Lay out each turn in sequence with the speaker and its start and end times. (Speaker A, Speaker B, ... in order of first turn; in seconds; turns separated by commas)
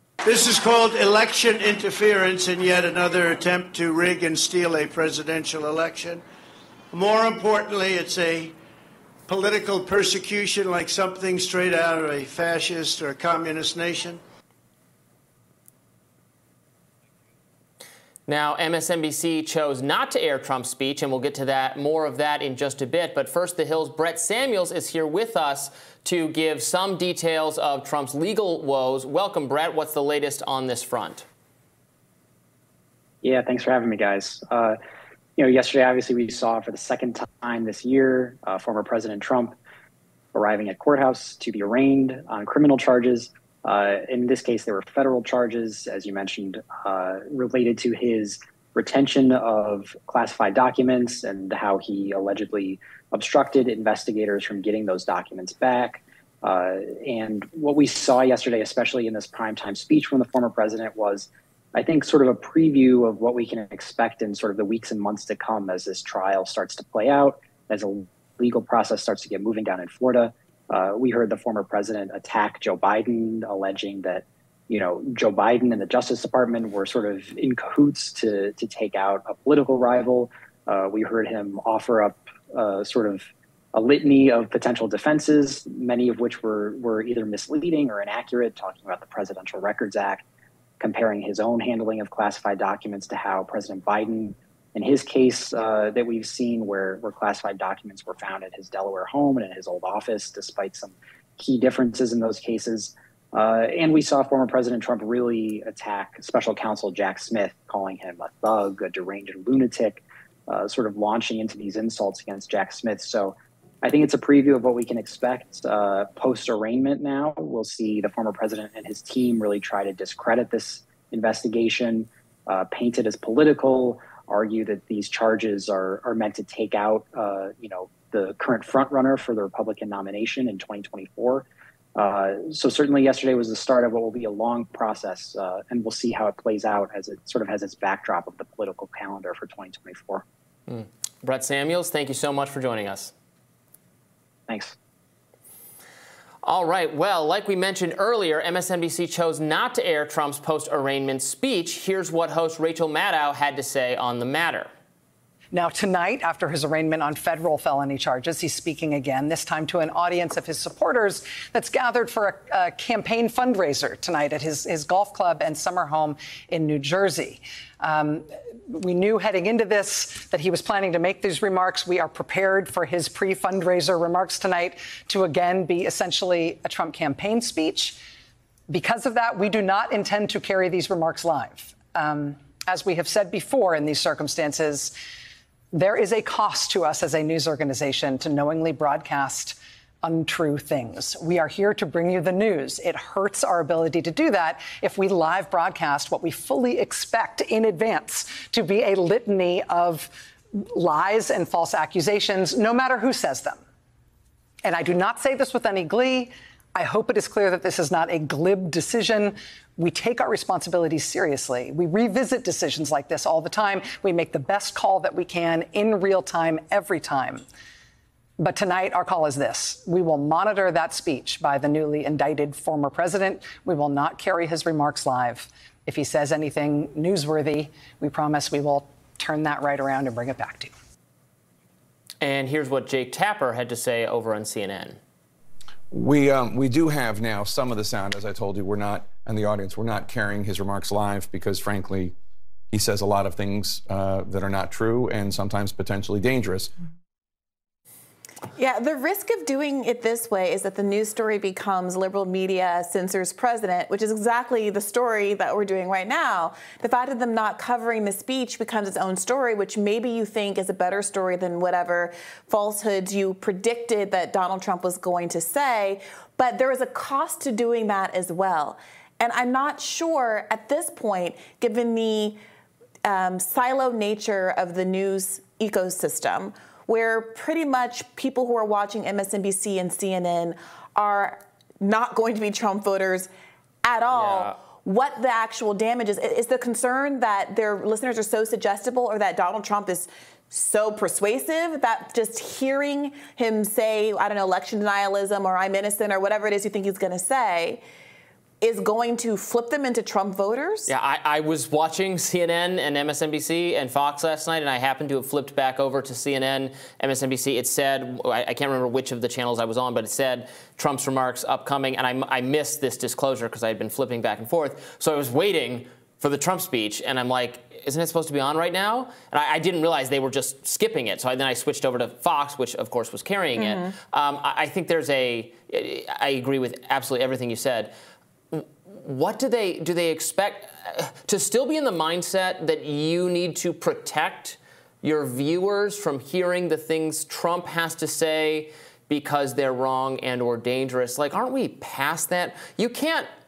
Speaker A: 0.2-6.2, Speaker A: 6.9-8.5, Speaker A: 9.3-14.2, Speaker B: 18.3-31.2, Speaker C: 33.2-34.8, Speaker C: 35.4-39.6, Speaker C: 40.3-90.2, Speaker C: 90.8-140.2, Speaker B: 140.7-143.1, Speaker C: 144.5-144.7, Speaker B: 146.4-154.7, Speaker D: 155.5-178.0, Speaker D: 178.7-184.9, Speaker D: 185.7-203.6, Speaker D: 204.6-217.4, Speaker D: 218.4-230.7, Speaker B: 232.2-235.0, Speaker E: 235.9-242.1, Speaker E: 242.7-246.7, Speaker F: 248.5-272.4, Speaker F: 273.0-283.3, Speaker F: 283.8-297.8, Speaker B: 284.1-284.6, Speaker F: 298.6-300.9, Speaker B: 300.9-327.9, Speaker F: 323.6-323.9, Speaker B: 328.5-343.3